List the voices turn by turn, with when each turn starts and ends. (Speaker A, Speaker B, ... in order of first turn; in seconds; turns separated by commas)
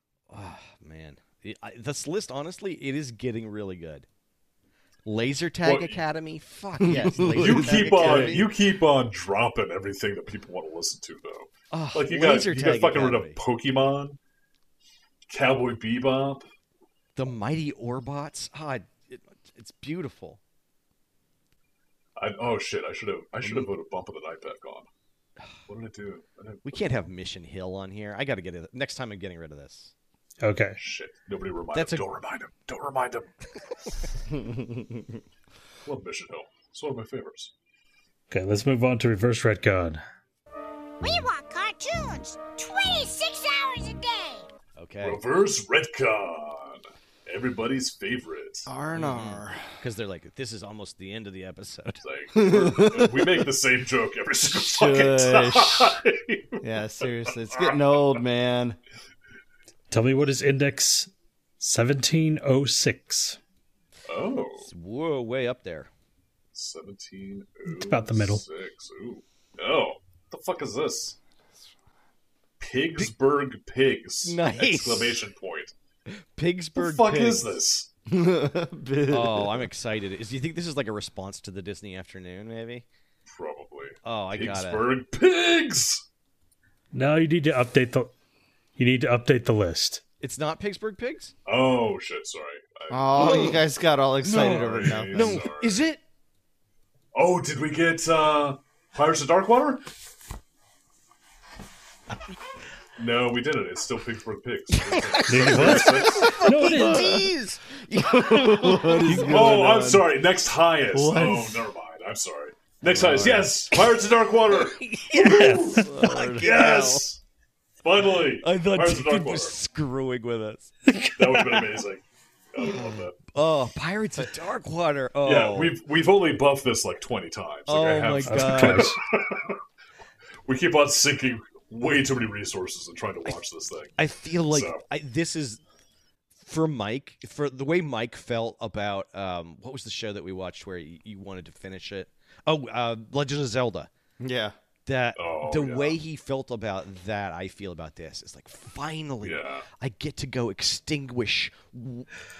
Speaker A: 0.3-4.0, Speaker A: 5.0-8.4, Speaker B: 5.6-6.0, Speaker C: 6.8-8.5, Speaker B: 7.2-14.2, Speaker A: 11.7-13.4, Speaker B: 15.3-16.4, Speaker A: 17.1-20.4, Speaker B: 22.2-24.9, Speaker A: 23.4-23.7, Speaker B: 25.7-26.9, Speaker A: 26.6-29.9, Speaker D: 30.4-30.8, Speaker B: 30.8-33.3, Speaker A: 31.7-32.0, Speaker B: 35.8-37.5, Speaker D: 38.3-40.0, Speaker E: 41.0-44.5, Speaker A: 44.8-45.2, Speaker B: 45.0-48.7, Speaker C: 48.7-49.6, Speaker A: 48.9-52.0, Speaker B: 52.0-57.0, Speaker C: 52.3-53.4, Speaker C: 54.5-56.0, Speaker C: 56.6-58.8, Speaker D: 59.9-63.4, Speaker B: 64.1-64.7, Speaker A: 64.6-65.9, Speaker B: 66.5-71.2, Speaker D: 67.7-68.4, Speaker B: 72.6-75.7, Speaker A: 74.2-75.2, Speaker A: 76.1-77.6, Speaker B: 76.7-77.9, Speaker C: 78.1-79.7, Speaker A: 79.1-82.8, Speaker B: 83.3-86.0, Speaker A: 84.0-84.9, Speaker D: 86.9-88.1, Speaker D: 88.8-90.0, Speaker A: 90.2-91.3, Speaker B: 91.5-93.6, Speaker C: 92.9-95.5, Speaker A: 93.1-93.6, Speaker A: 94.2-96.0, Speaker B: 94.3-95.8, Speaker B: 97.1-99.8, Speaker B: 103.0-106.4, Speaker A: 104.7-109.8, Speaker D: 105.3-107.3, Speaker C: 106.0-107.3, Speaker C: 107.9-110.0, Speaker B: 109.1-117.2, Speaker A: 110.9-111.7, Speaker C: 112.8-113.5, Speaker A: 114.8-117.0, Speaker D: 115.2-115.9, Speaker C: 115.8-117.0, Speaker B: 117.8-119.5, Speaker A: 118.4-120.7, Speaker D: 120.9-121.7, Speaker B: 121.2-123.2, Speaker A: 123.3-125.8, Speaker B: 125.2-129.6, Speaker A: 127.7-129.0, Speaker D: 128.2-129.0, Speaker B: 130.4-134.8, Speaker A: 134.0-135.6, Speaker A: 136.3-143.9, Speaker C: 144.2-144.5, Speaker A: 144.8-152.2, Speaker B: 145.2-146.0, Speaker B: 149.2-149.7